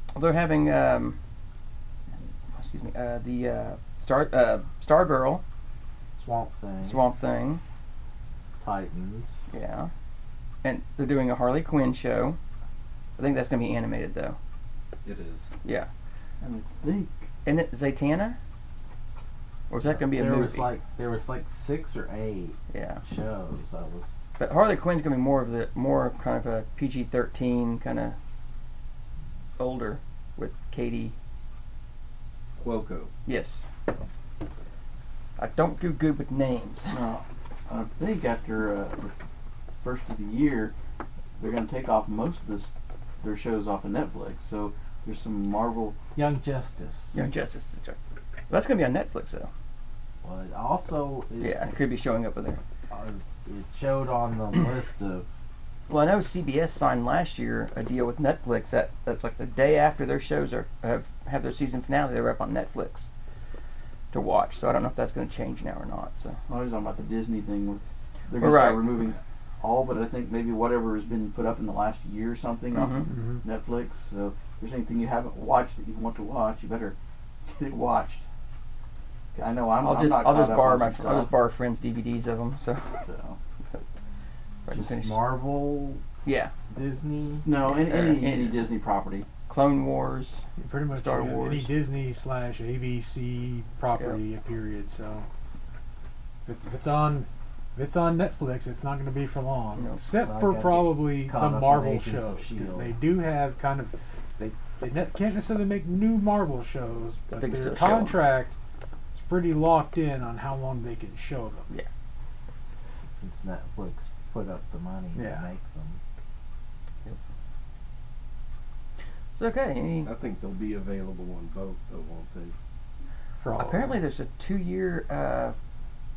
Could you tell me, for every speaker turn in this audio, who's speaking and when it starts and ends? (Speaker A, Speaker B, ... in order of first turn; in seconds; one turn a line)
Speaker A: 0.1-1.2
Speaker A: 2.1-5.4
Speaker B: 6.1-7.1
Speaker A: 6.8-7.6
Speaker B: 8.6-9.5
Speaker A: 9.5-9.9
Speaker A: 10.6-12.4
Speaker A: 13.2-14.4
Speaker C: 15.1-15.5
Speaker A: 15.6-15.9
Speaker D: 16.4-17.3
Speaker A: 17.4-18.4
Speaker A: 19.7-20.7
Speaker B: 19.9-24.1
Speaker A: 22.7-23.0
Speaker A: 24.4-28.2
Speaker A: 29.6-31.1
Speaker C: 32.6-33.1
Speaker A: 33.3-33.6
Speaker A: 35.4-37.0
Speaker D: 36.9-39.1
Speaker D: 39.8-40.7
Speaker D: 41.4-46.0
Speaker B: 46.1-47.3
Speaker A: 47.1-48.0
Speaker A: 48.5-49.5
Speaker B: 50.2-51.6
Speaker A: 51.4-52.6
Speaker B: 52.9-55.3
Speaker A: 55.9-63.1
Speaker A: 64.1-66.4
Speaker D: 66.5-77.0
Speaker A: 68.4-68.9
Speaker A: 72.7-73.1
Speaker E: 73.1-73.4
Speaker D: 77.5-78.3
Speaker D: 79.3-81.3
Speaker A: 79.8-83.0
Speaker D: 83.0-83.4
Speaker A: 84.7-85.2
Speaker B: 84.7-86.0
Speaker A: 86.2-86.5
Speaker B: 86.7-87.5
Speaker D: 87.4-89.3
Speaker A: 87.7-88.6
Speaker A: 89.5-91.7
Speaker E: 90.6-95.3
Speaker E: 96.5-108.5
Speaker A: 99.8-100.0
Speaker B: 100.1-103.0
Speaker A: 107.4-108.2
Speaker E: 109.1-111.7
Speaker B: 113.0-116.0
Speaker E: 115.2-115.5
Speaker A: 119.3-120.1
Speaker C: 120.0-122.5
Speaker E: 123.4-124.0
Speaker A: 123.5-125.6